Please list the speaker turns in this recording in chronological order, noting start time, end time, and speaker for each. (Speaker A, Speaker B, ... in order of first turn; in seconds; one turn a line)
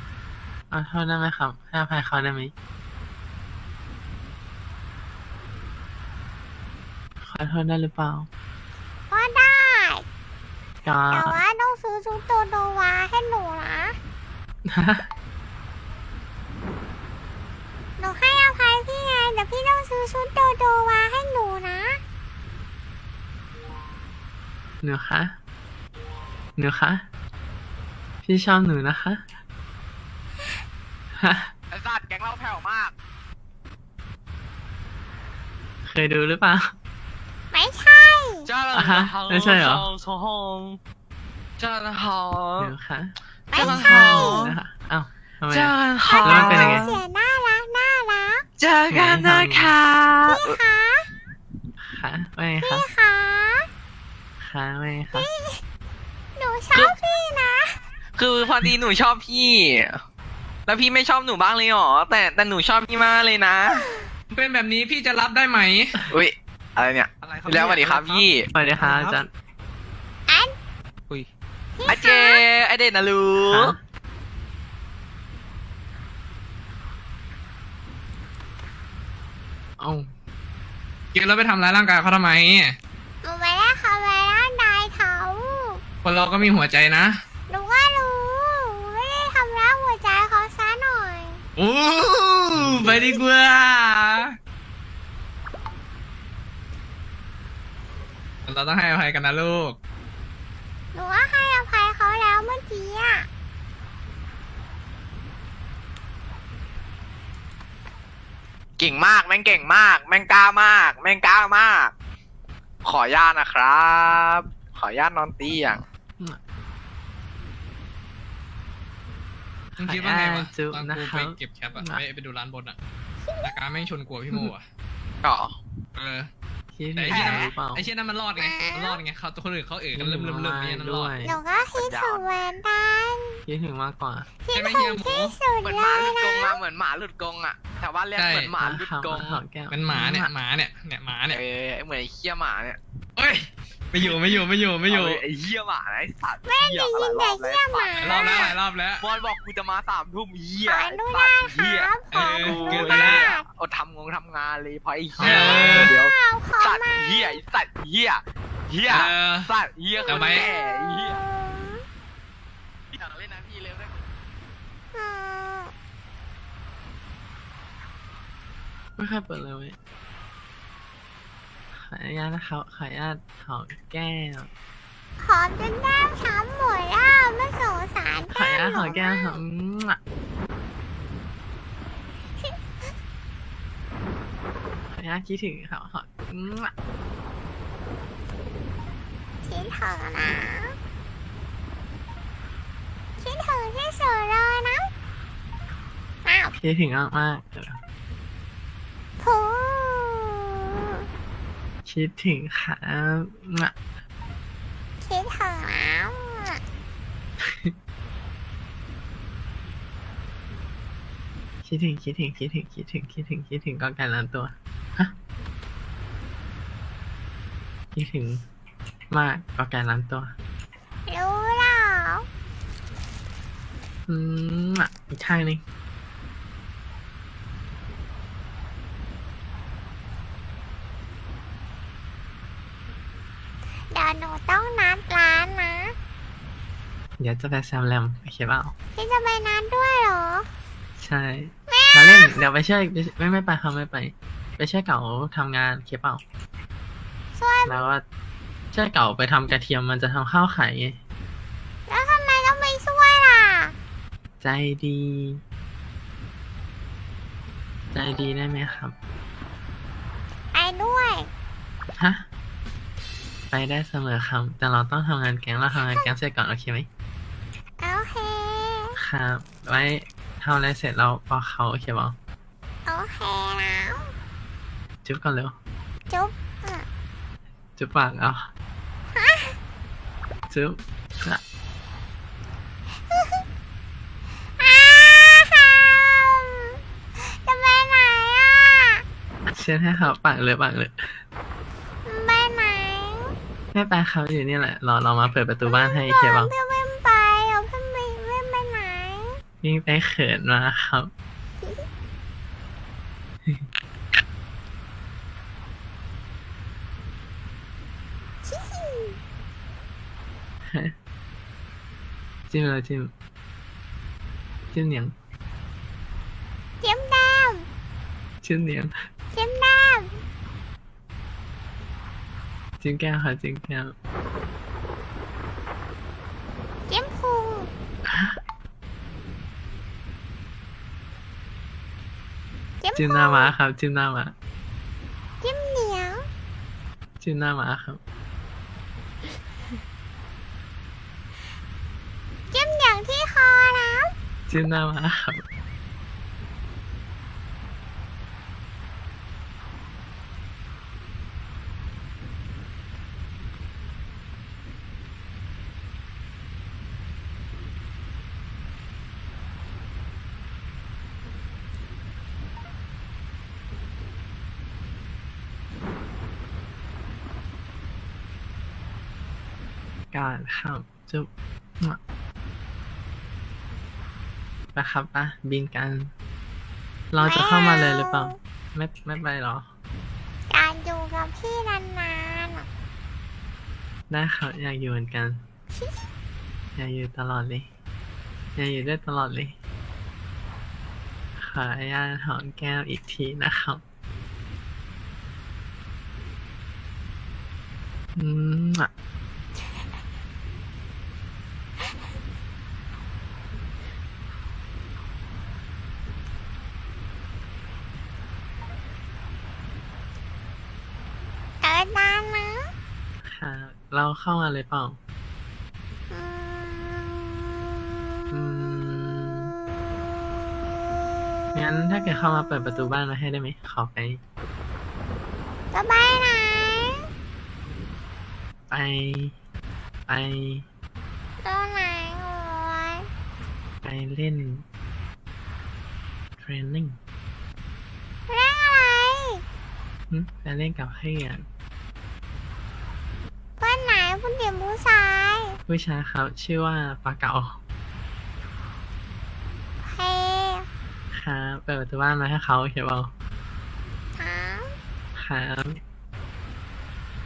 Speaker A: 0.7-2.5
Speaker A: 7.2-8.3
Speaker B: 9.1-10.1
Speaker A: 10.8-11.4
Speaker B: 11.1-14.0
Speaker A: 14.7-15.1
Speaker B: 18.0-22.0
Speaker A: 24.8-25.3
Speaker A: 26.6-27.0
Speaker A: 28.2-29.2
Speaker A: 31.2-31.5
Speaker C: 31.7-32.9
Speaker A: 35.9-36.7
Speaker B: 37.5-38.5
Speaker C: 38.5-40.8
Speaker A: 38.7-39.9
Speaker C: 41.6-42.7
Speaker A: 42.6-46.9
Speaker B: 43.5-44.5
Speaker C: 43.5-44.5
Speaker C: 45.5-47.0
Speaker B: 46.0-48.5
Speaker C: 48.6-50.6
Speaker A: 48.9-49.8
Speaker B: 50.2-51.1
Speaker A: 51.8-52.9
Speaker B: 52.6-53.7
Speaker A: 54.4-55.3
Speaker B: 55.1-55.6
Speaker B: 56.4-57.8
Speaker C: 58.1-60.0
Speaker C: 60.7-63.9
Speaker B: 63.6-64.1
Speaker D: 64.3-66.0
Speaker C: 66.1-68.5
Speaker A: 68.5-69.3
Speaker B: 70.3-70.5
Speaker B: 71.8-72.5
Speaker C: 71.9-73.7
Speaker A: 73.4-73.8
Speaker D: 81.1-82.8
Speaker B: 83.2-85.8
Speaker D: 86.0-87.1
Speaker B: 87.5-91.4
Speaker D: 91.6-94.4
Speaker B: 92.8-93.3
Speaker D: 98.5-99.8
Speaker B: 100.9-103.3
Speaker C: 108.8-111.9
Speaker C: 112.8-115.8
Speaker A: 119.8-122.0
Speaker D: 119.8-122.8
Speaker B: 123.2-123.6
Speaker D: 123.4-124.7
Speaker C: 125.2-125.6
Speaker D: 126.0-126.3
Speaker A: 126.7-127.9
Speaker D: 127.0-131.2
Speaker C: 127.1-127.5
Speaker B: 128.4-129.0
Speaker A: 129.9-131.4
Speaker B: 131.2-133.4
Speaker C: 131.8-132.3
Speaker A: 133.5-134.3
Speaker B: 134.4-136.6
Speaker D: 134.5-135.4
Speaker C: 135.6-139.4
Speaker D: 138.2-138.6
Speaker A: 138.6-140.3
Speaker D: 139.7-141.4
Speaker C: 141.3-142.8
Speaker D: 143.2-145.2
Speaker C: 144.0-161.2
Speaker B: 146.4-148.6
Speaker D: 148.0-149.0
Speaker B: 150.6-153.4
Speaker D: 152.1-153.3
Speaker D: 155.2-156.0
Speaker A: 155.2-155.9
Speaker B: 155.7-157.4
Speaker D: 158.9-159.5
Speaker B: 160.0-161.8
Speaker D: 160.1-160.5
Speaker C: 162.9-164.0
Speaker B: 164.9-165.7
Speaker A: 169.0-169.8
Speaker A: 171.7-174.5
Speaker B: 175.2-179.4
Speaker A: 178.3-180.0
Speaker A: 184.9-186.7
Speaker B: 189.4-190.8
Speaker B: 193.2-194.9
Speaker B: 196.2-196.5
Speaker A: 196.6-197.8
Speaker B: 199.2-201.0
Speaker A: 201.8-203.7
Speaker B: 205.0-206.6
Speaker A: 211.6-215.1
Speaker A: 217.9-218.4
Speaker A: 219.1-220.3
Speaker B: 221.1-222.2
Speaker A: 224.1-225.6
Speaker B: 233.9-235.9
Speaker A: 237.2-238.7
Speaker B: 238.9-240.5
Speaker A: 241.0-246.2
Speaker B: 241.7-242.3
Speaker B: 247.3-247.8
Speaker A: 247.7-248.0
Speaker A: 248.7-251.0
Speaker B: 251.9-253.7
Speaker A: 254.4-255.4
Speaker A: 257.9-258.9
Speaker B: 260.5-261.3
Speaker A: 263.5-266.9
Speaker B: 265.7-266.1
Speaker B: 267.8-268.9
Speaker A: 269.0-272.1
Speaker B: 272.9-274.1
Speaker A: 275.1-275.5
Speaker B: 276.1-276.9
Speaker A: 277.8-278.5
Speaker B: 279.1-279.6
Speaker A: 280.5-281.4
Speaker B: 283.1-283.4
Speaker B: 284.6-289.0
Speaker A: 289.5-290.9
Speaker B: 292.1-293.4
Speaker A: 293.7-296.5
Speaker B: 295.6-299.4
Speaker A: 299.6-301.1
Speaker B: 308.4-309.2
Speaker A: 312.5-313.1
Speaker A: 314.7-315.1
Speaker B: 316.8-317.7
Speaker A: 318.4-318.9
Speaker B: 319.3-320.1
Speaker A: 322.8-323.9
Speaker B: 326.9-327.7
Speaker A: 328.1-328.4
Speaker B: 332.8-333.5
Speaker A: 333.0-334.3
Speaker B: 335.4-336.2
Speaker A: 337.2-338.0
Speaker B: 342.5-344.1
Speaker A: 344.5-345.4
Speaker A: 370.1-371.3
Speaker A: 374.7-376.1
Speaker A: 377.1-379.7
Speaker B: 377.2-378.4
Speaker B: 380.5-382.7
Speaker A: 384.1-385.4
Speaker B: 385.7-386.0
Speaker A: 386.8-387.7
Speaker A: 388.6-389.5
Speaker A: 391.4-393.8
Speaker A: 398.2-398.9
Speaker B: 411.6-412.7
Speaker A: 413.2-415.0
Speaker B: 416.1-417.2
Speaker A: 418.3-419.5
Speaker A: 421.5-424.2
Speaker B: 425.7-427.1
Speaker A: 428.7-429.3
Speaker A: 430.1-430.6
Speaker B: 431.4-433.1
Speaker A: 433.8-434.6
Speaker A: 436.4-437.0
Speaker B: 438.3-439.4
Speaker A: 440.1-441.4
Speaker B: 443.6-445.6
Speaker A: 445.7-447.6
Speaker B: 449.9-450.7
Speaker A: 451.1-453.1
Speaker B: 454.2-454.7
Speaker A: 455.2-455.8